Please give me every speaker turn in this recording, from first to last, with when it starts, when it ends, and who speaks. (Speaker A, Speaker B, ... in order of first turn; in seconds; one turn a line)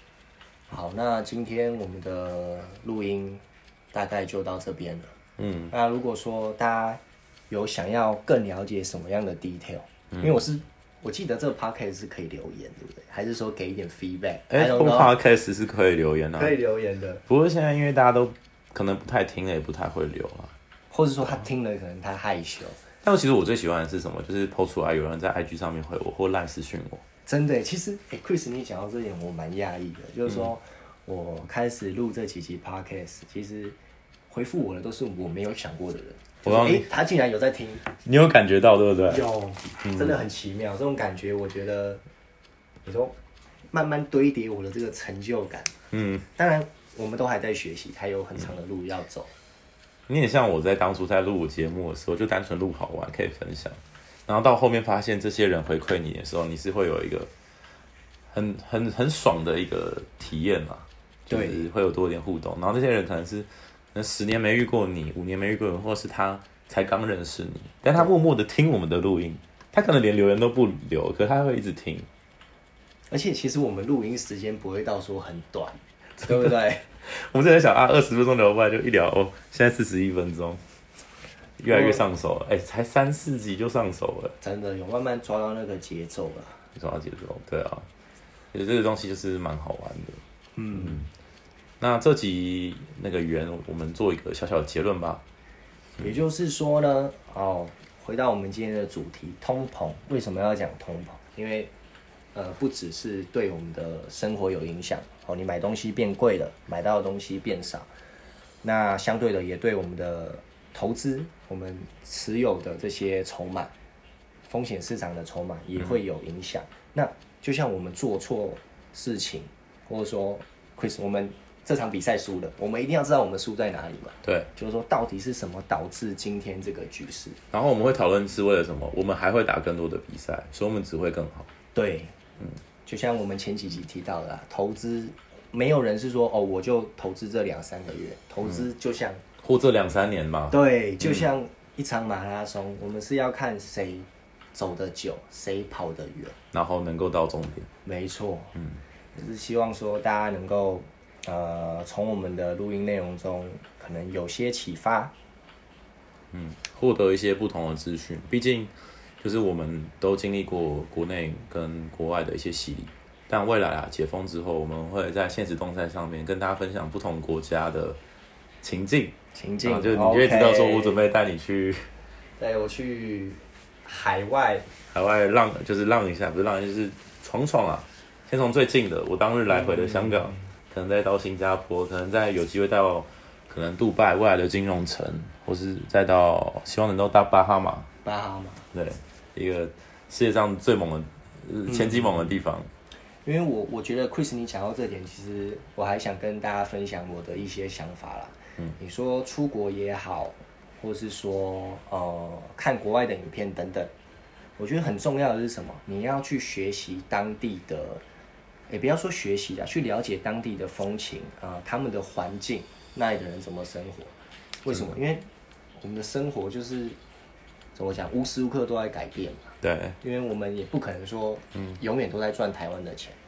Speaker A: 0.7-5.1
Speaker B: 5.4-5.7
Speaker A: 5.7-15.1
Speaker B: 10.1-10.4
Speaker B: 14.5-16.6
Speaker A: 16.4-17.2
Speaker B: 17.3-20.5
Speaker A: 20.9-22.8
Speaker B: 23.0-27.0
Speaker A: 27.3-33.8
Speaker B: 30.3-30.5
Speaker A: 34.3-37.9
Speaker B: 36.4-36.9
Speaker B: 38.0-39.2
Speaker A: 39.1-42.0
Speaker B: 39.8-40.2
Speaker A: 42.9-43.1
Speaker A: 43.7-45.7
Speaker B: 45.9-46.3
Speaker A: 46.4-49.3
Speaker B: 50.1-57.3
Speaker B: 58.3-72.1
Speaker A: 61.3-61.7
Speaker A: 73.1-76.9
Speaker B: 76.2-80.6
Speaker B: 81.6-84.3
Speaker A: 81.7-82.0
Speaker A: 84.4-86.6
Speaker B: 86.8-87.9
Speaker B: 88.5-90.2
Speaker A: 90.6-91.1
Speaker B: 90.7-91.1
Speaker B: 91.8-95.2
Speaker A: 96.0-101.7
Speaker A: 102.3-107.9
Speaker A: 108.6-113.7
Speaker A: 114.5-127.4
Speaker B: 124.2-124.5
Speaker B: 127.5-131.5
Speaker A: 131.8-132.2
Speaker A: 132.9-139.2
Speaker B: 139.4-141.3
Speaker A: 140.5-146.3
Speaker B: 146.5-147.7
Speaker A: 147.8-148.6
Speaker B: 148.6-148.8
Speaker A: 149.2-155.1
Speaker B: 156.3-168.0
Speaker B: 168.6-171.9
Speaker A: 169.3-171.0
Speaker A: 172.4-174.7
Speaker B: 174.9-187.9
Speaker A: 179.5-180.4
Speaker A: 188.0-188.7
Speaker B: 188.7-192.7
Speaker A: 191.7-192.4
Speaker A: 193.2-203.9
Speaker A: 204.6-208.0
Speaker A: 208.7-214.1
Speaker A: 214.6-215.3
Speaker A: 215.8-217.0
Speaker A: 217.8-223.2
Speaker B: 219.6-220.0